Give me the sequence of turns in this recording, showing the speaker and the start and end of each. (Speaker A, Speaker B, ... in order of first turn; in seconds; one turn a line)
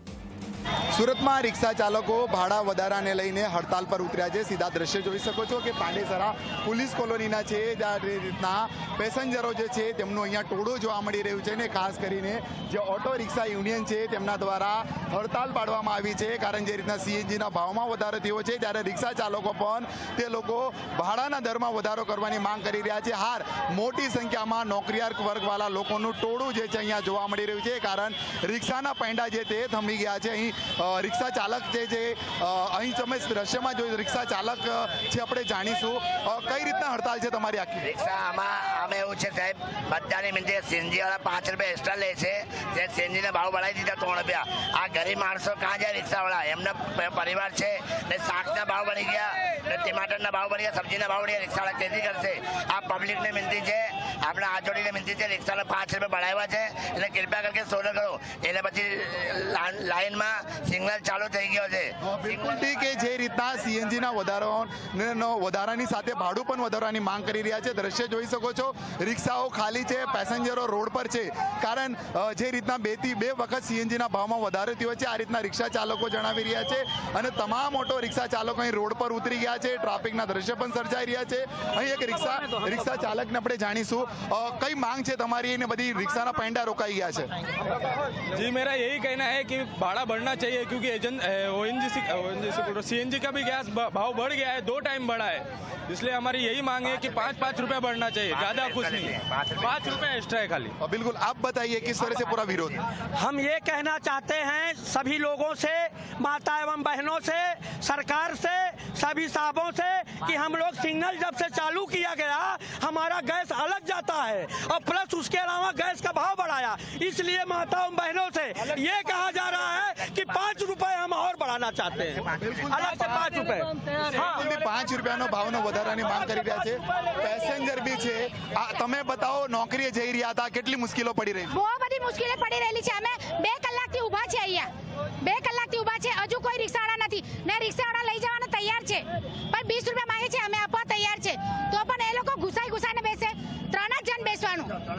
Speaker A: 0.9-37.9
Speaker B: 37.9-62.6
Speaker A: 62.0-87.3
Speaker C: 88.3-100.7
Speaker B: 98.3-100.0
Speaker A: 100.8-102.8
Speaker D: 103.1-124.3
Speaker A: 122.4-122.9
Speaker A: 124.2-131.5
Speaker E: 131.6-134.7
Speaker E: 135.2-144.7